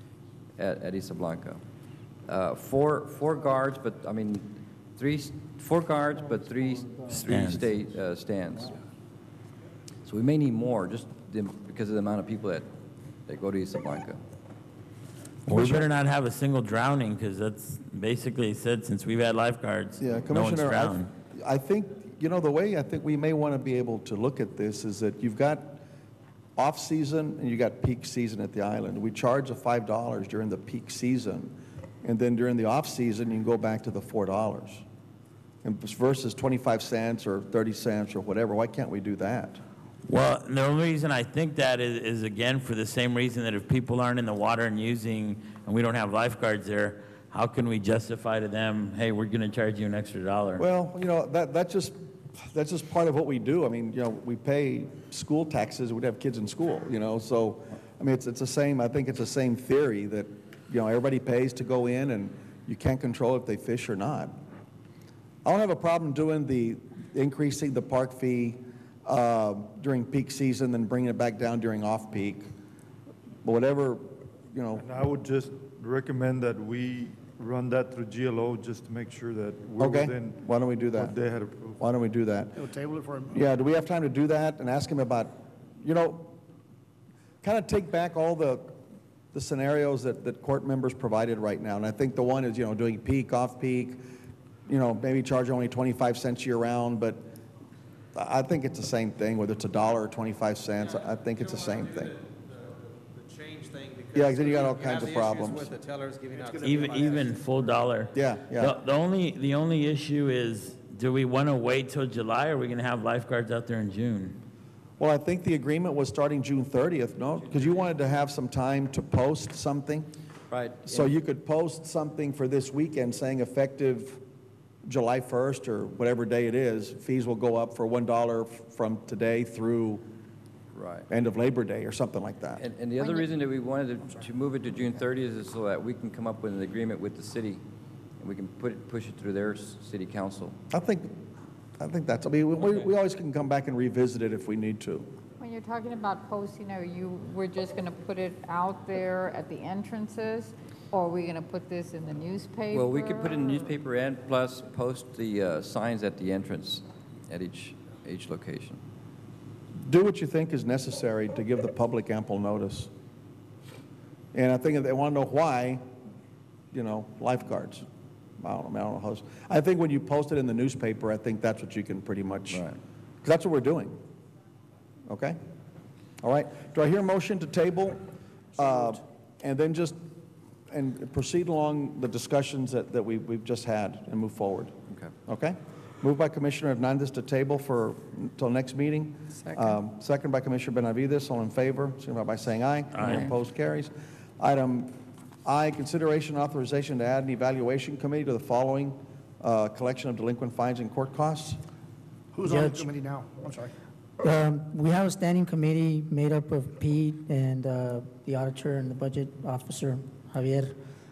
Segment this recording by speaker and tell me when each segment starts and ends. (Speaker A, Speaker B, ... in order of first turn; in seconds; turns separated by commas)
Speaker A: 0.6-1.6, Speaker A: 2.3-8.8, Speaker B: 7.3-7.6, Speaker A: 10.1-12.7, Speaker A: 13.3-14.2, Speaker B: 15.5-21.1, Speaker C: 15.5-15.8, Speaker C: 20.0-25.8, Speaker C: 26.6-34.9, Speaker C: 35.6-39.6, Speaker B: 40.1-50.6, Speaker C: 50.6-64.3, Speaker C: 65.5-72.5, Speaker C: 73.4-74.8, Speaker D: 74.8-81.8, Speaker C: 79.8-81.2, Speaker C: 81.8-82.6, Speaker E: 82.6-83.4, Speaker C: 83.3-86.4, Speaker C: 87.4-88.8, Speaker C: 89.3-94.0, Speaker C: 94.7-97.3, Speaker C: 98.2-102.2, Speaker F: 103.1-107.3, Speaker C: 104.1-105.8, Speaker B: 106.6-114.4, Speaker C: 108.1-108.8, Speaker C: 115.0-120.1, Speaker A: 120.5-121.1, Speaker C: 120.8-124.2, Speaker C: 124.9-130.0, Speaker A: 130.7-131.1, Speaker C: 131.1-132.6, Speaker A: 132.6-137.6, Speaker G: 133.0-133.3, Speaker A: 138.2-140.6, Speaker C: 140.7-141.1, Speaker C: 141.8-145.1, Speaker G: 145.4-153.7, Speaker A: 152.7-158.8, Speaker C: 159.8-162.9, Speaker C: 164.3-165.8, Speaker C: 166.7-167.9, Speaker C: 168.4-172.7, Speaker A: 172.5-172.8, Speaker C: 173.2-174.0, Speaker C: 175.1-175.4, Speaker C: 176.2-178.0, Speaker C: 178.6-180.0, Speaker C: 180.7-184.7, Speaker C: 185.3-194.9, Speaker G: 189.4-189.8, Speaker C: 195.4-201.6, Speaker E: 202.3-203.7, Speaker H: 202.4-202.9, Speaker H: 204.2-210.7